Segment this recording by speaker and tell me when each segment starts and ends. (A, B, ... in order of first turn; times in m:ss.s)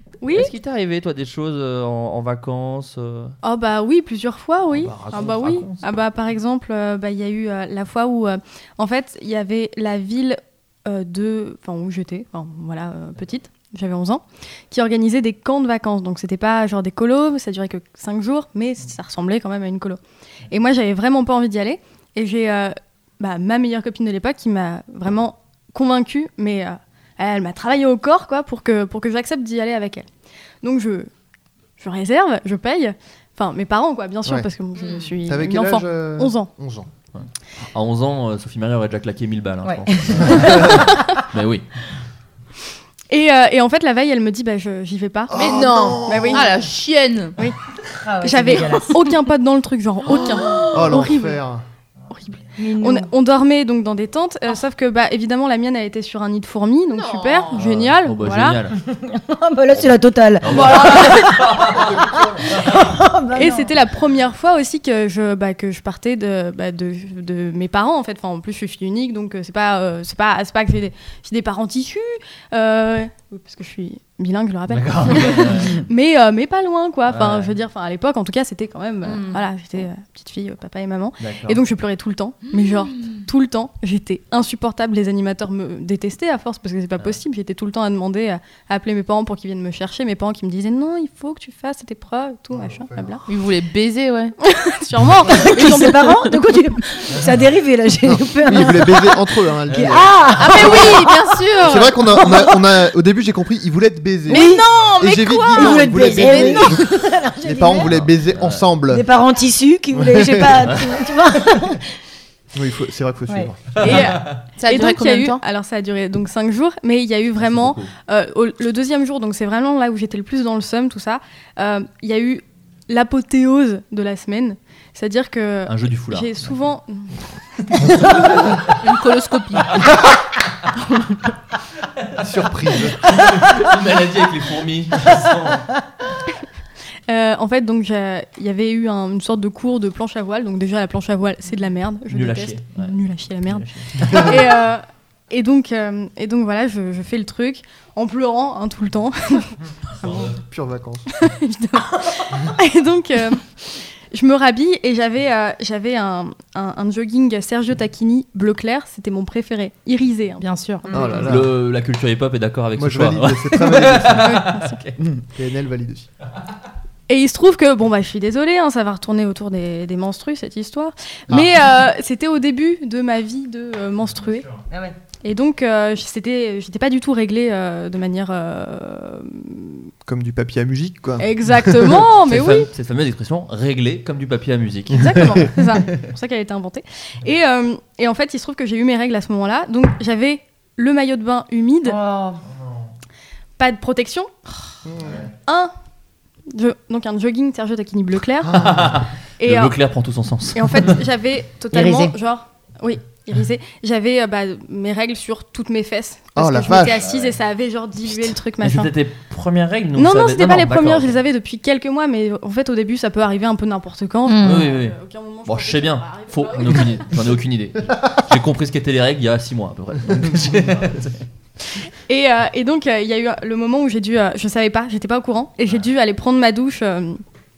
0:00.2-0:00.5 A
0:00.3-0:03.4 B
0:03.4-0:20.0 A
0:04.7-0:06.0 B
0:20.5-0:30.1 A
0:30.6-0:31.1 A
0:31.8-0:36.5 A
0:34.8-0:35.1 C
0:35.2-0:36.9 D
0:37.2-0:41.7 B
0:39.6-0:41.2 E
0:40.6-0:41.2 A
0:43.1-0:46.5 A
0:45.3-0:46.6 D
0:45.3-0:47.4 C
0:47.9-0:49.0 E
0:48.2-0:51.4 A
0:50.1-0:50.9 C
0:50.7-0:51.6 D
0:52.1-0:58.6 A
0:52.6-0:53.1 E
0:57.0-0:57.6 C
0:57.6-0:58.8 B
0:58.8-1:03.7 E
1:00.4-1:01.9 B
1:01.7-1:02.5 D
1:03.3-1:33.2 A
1:14.7-1:15.8 B
1:17.1-1:17.6 B
1:19.0-1:19.4 C
1:21.2-1:21.6 B
1:22.5-1:23.2 C
1:32.6-1:33.1 D
1:33.3-1:34.4 C
1:34.4-1:36.3 A
1:35.3-1:41.3 E
1:38.1-1:41.1 D
1:39.7-1:40.1 B
1:40.4-1:42.4 C
1:41.6-1:46.9 D
1:42.1-1:42.5 E
1:44.3-1:46.8 C
1:44.3-1:44.7 E
1:45.5-1:47.9 E
1:47.4-1:49.0 D
1:47.9-1:48.7 B
1:48.9-1:51.9 E
1:49.9-1:50.8 D
1:52.5-1:54.0 D
1:53.8-2:07.1 A
1:53.8-1:54.4 B
1:54.6-1:55.4 C
1:57.4-1:57.9 B
2:05.7-2:06.3 B
2:07.8-2:08.1 B
2:08.6-2:10.0 C
2:10.9-2:11.2 C
2:12.2-2:13.2 D
2:12.9-2:15.7 B
2:17.1-2:30.3 A
2:22.1-2:22.9 B
2:23.5-2:24.4 B
2:30.0-2:30.3 B
2:30.1-2:31.1 D
2:31.1-2:41.3 A
2:40.4-2:40.8 C
2:40.9-2:41.6 D
2:41.2-2:45.0 B
2:42.8-2:44.4 D
2:44.1-2:44.9 A
2:45.2-2:46.1 D
2:47.1-2:54.5 A
2:54.7-2:55.0 E
2:55.2-2:59.9 A
3:00.1-3:02.0 D
3:01.2-3:02.7 A
3:02.2-3:05.5 B
3:04.9-3:12.0 A
3:11.8-3:12.4 E
3:13.6-3:14.3 A
3:14.8-3:15.3 D
3:15.5-3:15.7 A
3:16.5-3:18.7 A
3:18.4-3:18.9 D
3:18.5-3:21.0 B
3:19.4-3:19.8 A
3:20.5-3:28.9 A
3:21.7-3:22.2 E
3:26.4-3:27.1 D
3:27.0-3:27.3 B
3:28.6-3:31.2 B
3:30.0-3:37.1 A
3:34.3-3:34.7 C
3:34.4-3:41.2 B
3:41.8-3:47.2 A